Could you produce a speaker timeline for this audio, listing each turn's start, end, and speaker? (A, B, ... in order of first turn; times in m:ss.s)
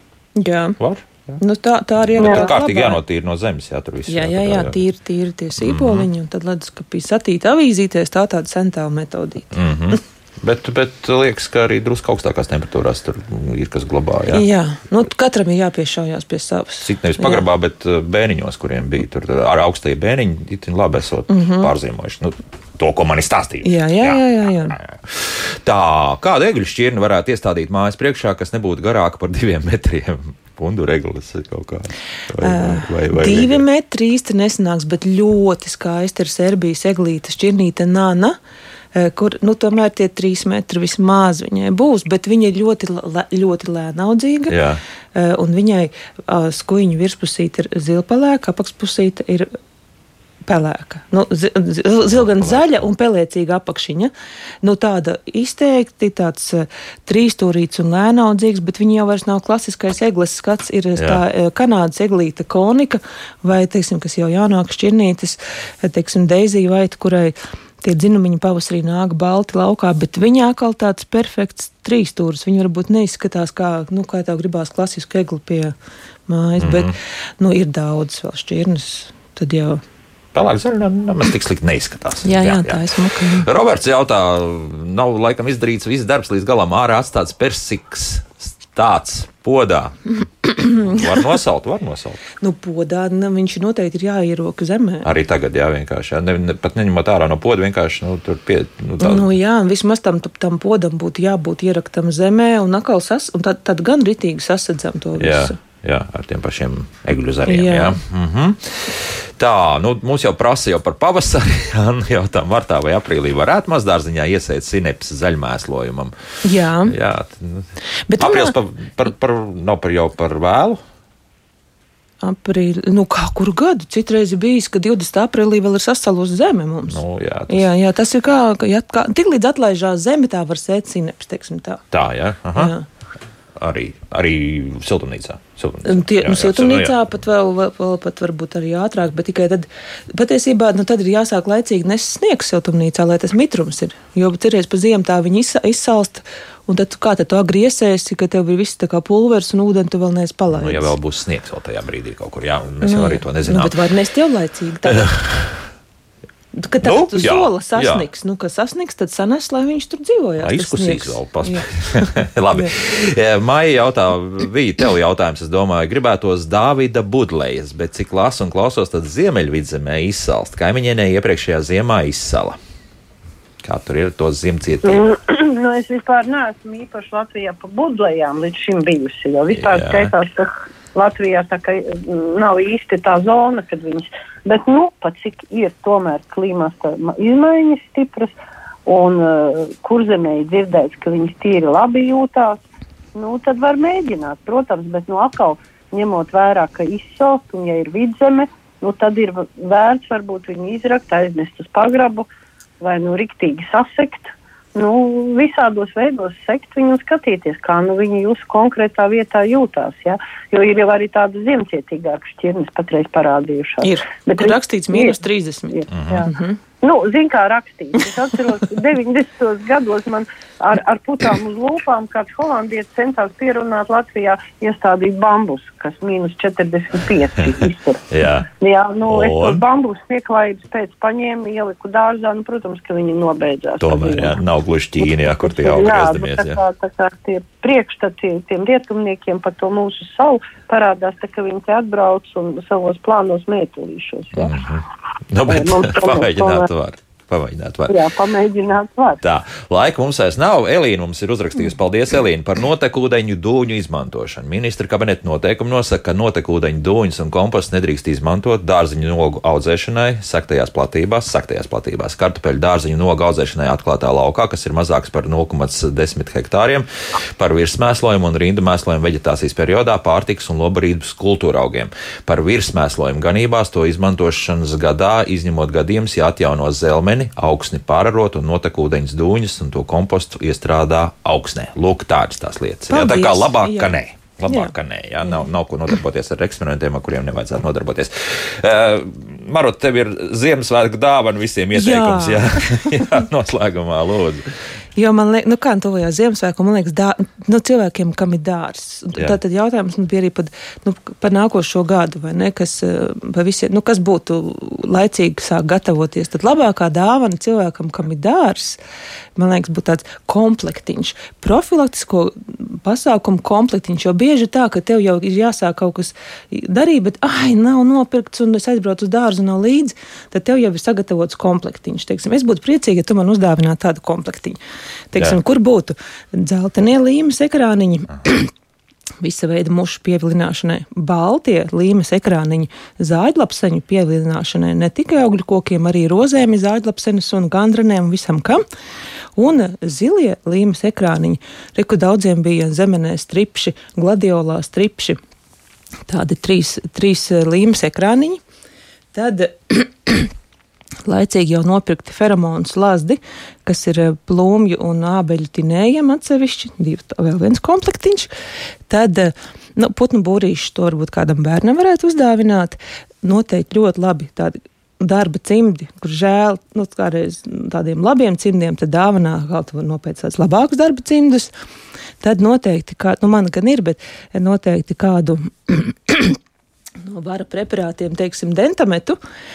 0:00.4-0:00.8 A
0:00.8-0:01.4 B
0:01.4-0:03.0 A
0:02.1-0:04.8 B
0:02.2-0:02.5 C
0:04.1-0:09.6 A
0:05.6-0:06.1 B
0:09.5-0:14.4 B
0:14.3-0:17.4 A
0:16.8-0:33.6 B
0:21.3-0:21.7 A
0:23.6-0:24.8 A
0:32.4-0:38.4 A
0:39.0-0:44.6 A
0:44.5-0:44.8 B
0:45.2-0:49.5 A
0:50.5-0:54.1 A
0:52.0-0:52.9 B
0:54.6-1:15.8 A
1:01.0-1:01.2 B
1:16.3-1:19.8 A
1:16.6-1:16.9 B
1:20.3-1:30.1 B
1:22.2-1:23.5 A
1:30.4-1:31.0 A
1:30.7-1:32.2 B
1:32.4-1:35.1 A
1:35.0-1:39.3 B
1:39.0-1:45.6 A
1:45.2-1:56.2 B
1:47.5-1:48.0 A
1:56.4-1:57.0 A
1:56.8-2:00.8 B
1:58.1-1:58.6 A
2:02.2-2:11.8 A
2:06.9-2:07.7 B
2:11.9-2:12.8 B
2:12.5-2:12.8 A
2:13.6-2:17.0 B
2:15.8-2:30.9 A
2:30.5-2:33.8 B
2:32.8-2:35.1 A
2:34.9-2:35.6 B
2:36.6-2:42.7 A
2:36.8-2:38.1 B
2:40.4-2:52.6 B
2:53.6-2:55.0 B
2:54.8-3:12.6 C
2:59.5-3:00.1 B
3:13.2-3:22.3 C
3:22.8-3:35.2 C
3:33.8-3:36.6 A
3:35.7-3:48.1 C
3:35.9-3:36.3 B
3:48.1-3:48.5 B
3:48.6-3:54.4 C
3:49.1-3:49.6 B
3:53.8-3:56.6 B
3:55.0-4:04.6 C
4:04.3-4:08.0 B
4:05.5-4:06.7 C
4:07.9-4:09.2 C
4:09.2-4:54.5 B
4:42.9-4:43.9 A
4:44.5-4:44.7 A
4:51.8-4:53.0 A
4:55.0-5:08.8 A
5:09.4-5:24.6 A
5:25.1-5:28.5 A
5:29.2-5:38.6 A
5:39.4-5:45.2 A
5:46.1-5:48.4 A
5:49.1-5:50.3 A
5:51.1-5:58.3 A
5:58.9-6:11.5 A
6:12.2-6:16.4 A
6:17.0-6:19.2 A